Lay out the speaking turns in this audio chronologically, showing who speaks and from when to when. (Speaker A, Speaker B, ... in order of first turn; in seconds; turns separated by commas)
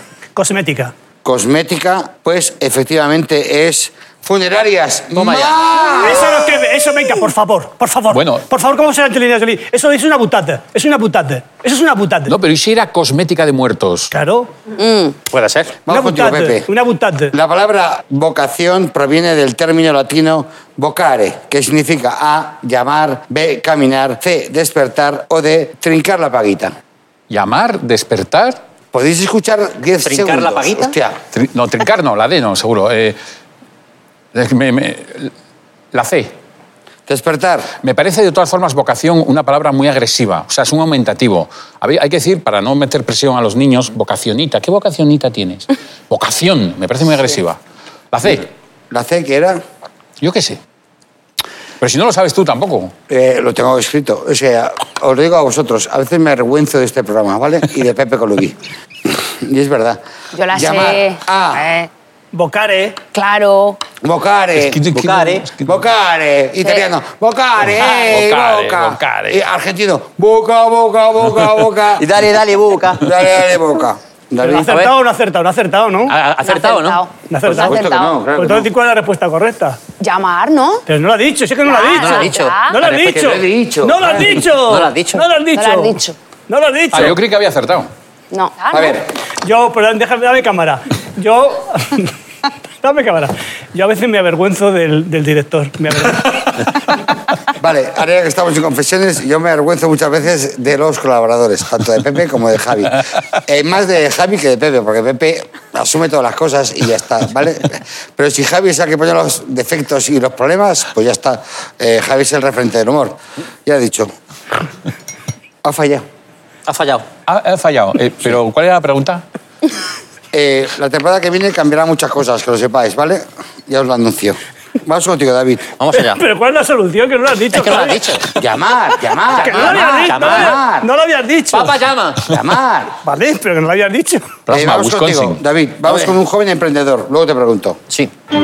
Speaker A: 0.3-0.9, Speaker B: 1.2-6.5, Speaker C: 5.1-5.6, Speaker A: 5.9-12.3, Speaker D: 8.1-8.4, Speaker D: 12.3-14.1, Speaker A: 14.1-14.5, Speaker E: 14.8-15.1, Speaker C: 15.3-15.8, Speaker B: 15.9-16.7, Speaker A: 15.9-17.3, Speaker B: 17.3-26.7, Speaker D: 27.3-28.6, Speaker B: 28.9-31.2, Speaker C: 30.0-30.9, Speaker D: 31.3-33.2, Speaker D: 34.3-35.3, Speaker D: 35.9-36.3, Speaker B: 37.1-37.7, Speaker D: 37.8-47.6, Speaker D: 48.1-48.5, Speaker B: 48.9-49.6, Speaker D: 50.2-50.6, Speaker D: 51.8-52.9, Speaker B: 53.1-60.0, Speaker E: 60.3-61.9, Speaker B: 60.5-61.6, Speaker A: 62.3-63.0, Speaker E: 63.1-63.8, Speaker B: 64.0-72.0, Speaker D: 64.5-65.7, Speaker C: 65.0-65.4, Speaker D: 67.8-69.4, Speaker C: 72.0-73.0, Speaker B: 73.0-74.8, Speaker A: 74.4-76.1, Speaker C: 74.5-74.9, Speaker C: 76.1-77.0, Speaker E: 76.4-78.2, Speaker A: 77.3-79.8, Speaker B: 77.5-78.7, Speaker E: 80.0-80.8, Speaker A: 80.9-87.2, Speaker E: 81.6-82.8, Speaker C: 81.9-83.4, Speaker B: 83.0-84.2, Speaker C: 84.5-85.2, Speaker E: 85.5-86.2, Speaker D: 86.9-87.9, Speaker E: 88.3-89.0, Speaker B: 88.7-89.0, Speaker A: 89.4-92.1, Speaker A: 92.8-96.7, Speaker B: 97.6-114.1, Speaker B: 115.6-116.0, Speaker C: 116.7-117.1, Speaker D: 117.3-119.2, Speaker B: 120.3-125.7, Speaker C: 125.8-126.2, Speaker A: 125.9-128.4, Speaker C: 127.5-128.3, Speaker B: 128.4-130.9, Speaker C: 129.3-130.6, Speaker A: 129.3-131.8, Speaker C: 131.5-132.3, Speaker B: 132.3-133.0, Speaker A: 133.0-134.4, Speaker D: 134.5-135.4, Speaker B: 134.5-137.8, Speaker C: 135.9-136.1